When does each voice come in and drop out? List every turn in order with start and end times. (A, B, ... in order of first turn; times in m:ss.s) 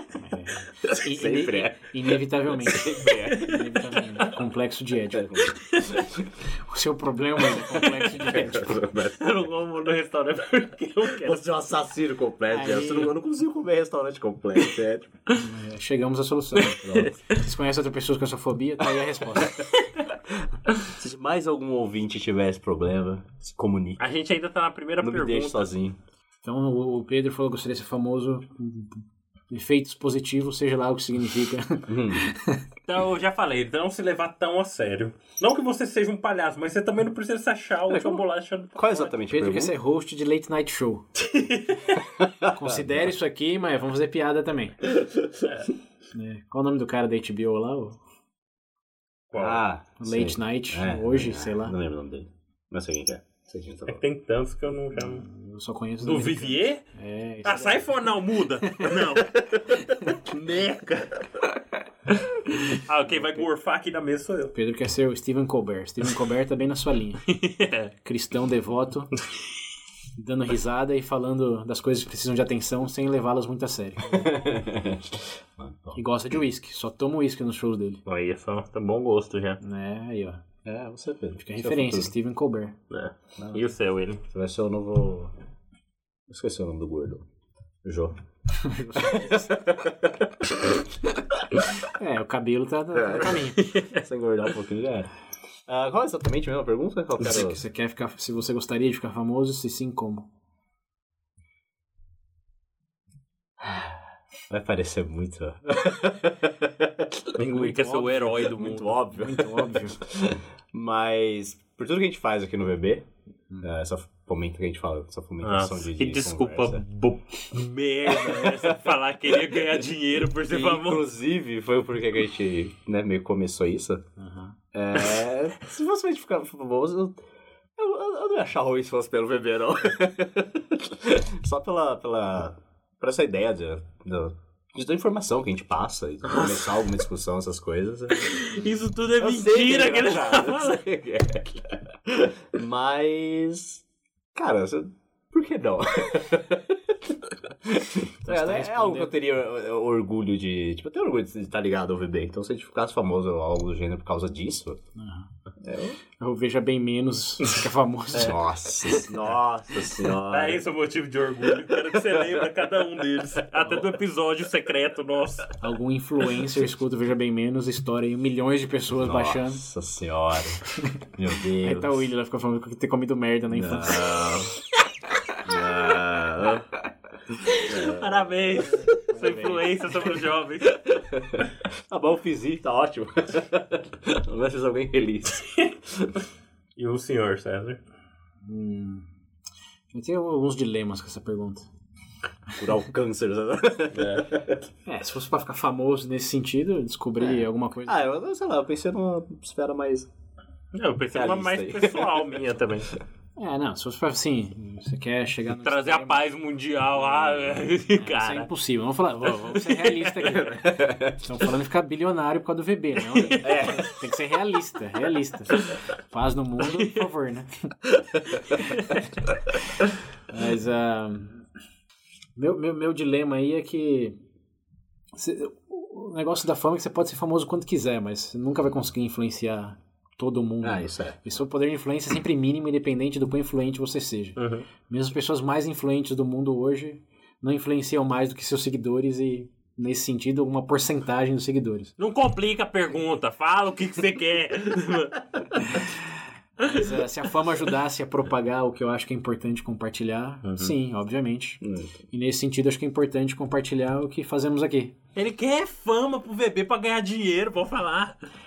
0:00.1-0:05.3 A
0:00.8-0:03.6 B
0:03.3-0:04.3 C
0:05.1-0:06.3 B
0:05.7-0:06.0 C
0:06.7-0:08.8 A
0:07.7-0:08.3 C
0:08.2-0:09.5 B
0:09.2-0:11.4 C
0:11.1-0:15.1 B
0:12.5-0:13.1 A
0:15.3-0:19.7 A
0:16.6-0:17.2 B
0:20.3-0:24.0 B
0:24.0-0:25.7 C
0:25.0-0:26.0 B
0:26.4-0:32.6 A
0:31.9-0:32.3 B
0:32.9-0:39.1 C
0:37.9-0:39.8 B
0:39.3-0:41.1 A
0:41.2-0:42.0 C
0:42.1-0:43.1 B
0:42.4-0:44.9 A
0:45.4-0:45.7 C
0:46.1-0:48.0 A
0:49.3-0:49.6 C
0:49.4-0:54.0 B
0:50.0-0:51.8 A
0:53.9-0:55.2 C
0:55.0-0:57.9 A
0:56.0-0:56.8 C
0:57.4-1:00.2 C
0:58.7-0:58.9 A
1:00.2-1:01.6 B
1:02.2-1:04.5 C
1:04.5-1:07.3 A
1:07.3-1:07.9 C
1:08.0-1:09.1 A
1:10.2-1:14.4 A
1:14.1-1:16.0 B
1:16.0-1:18.0 A
1:18.1-1:19.6 C
1:19.6-1:20.4 A
1:20.6-1:22.1 B
1:21.4-1:22.8 A
1:22.9-1:24.2 C
1:23.4-1:23.7 B
1:24.3-1:25.3 B
1:26.3-1:27.3 B
1:27.8-1:28.2 B
1:28.5-1:29.5 A
1:29.0-1:30.8 B
1:31.9-1:33.6 A
1:32.9-1:35.1 B
1:33.5-1:34.0 C
1:35.7-1:37.6 B
1:37.2-1:40.3 A
1:43.6-1:43.9 B
1:44.5-1:53.1 B
1:47.4-1:49.0 C
1:49.1-1:50.0 A
1:53.6-1:56.8 B
1:55.4-2:01.0 C
1:58.1-1:58.8 B
2:00.4-2:04.0 B
2:04.2-2:04.6 A
2:04.7-2:07.2 B
2:07.8-2:23.8 B
2:16.2-2:16.9 C
2:18.1-2:20.8 C
2:24.4-2:34.8 B
2:28.2-2:29.1 A
2:35.0-2:35.3 A
2:35.6-2:36.0 B
2:36.2-2:38.4 A
2:38.1-2:40.7 B
2:40.2-2:45.5 C
2:41.7-2:42.4 B
2:45.6-2:49.6 A
2:48.9-2:52.1 B
2:51.6-2:54.2 A
2:53.5-2:54.6 B
2:55.4-2:58.6 B
2:57.4-3:00.8 C
2:58.6-2:59.7 A
3:00.6-3:06.1 B
3:06.8-3:07.8 C
3:08.4-3:09.1 A
3:09.9-3:11.7 A
3:12.6-3:14.6 B
3:13.9-3:14.3 C
3:14.9-3:18.0 A
3:17.9-3:20.1 B
3:20.7-3:22.9 C
3:21.1-3:22.3 B
3:23.4-3:26.2 A
3:25.6-3:28.5 C
3:27.9-3:37.7 A
3:29.4-3:30.6 C
3:30.4-3:31.3 B
3:33.1-3:33.8 C
3:33.4-3:33.9 B
3:36.6-3:37.1 C
3:38.3-3:39.0 C
3:38.5-3:38.8 A
3:40.3-3:41.5 A
3:42.4-3:44.2 A
3:45.1-4:01.9 A
3:50.6-3:51.2 B
3:54.4-3:54.7 C
4:02.0-4:05.8 C
4:05.6-4:06.0 A
4:06.6-4:15.0 A
4:06.6-4:06.9 C
4:10.4-4:10.7 C
4:11.6-4:12.0 B
4:15.2-4:18.2 C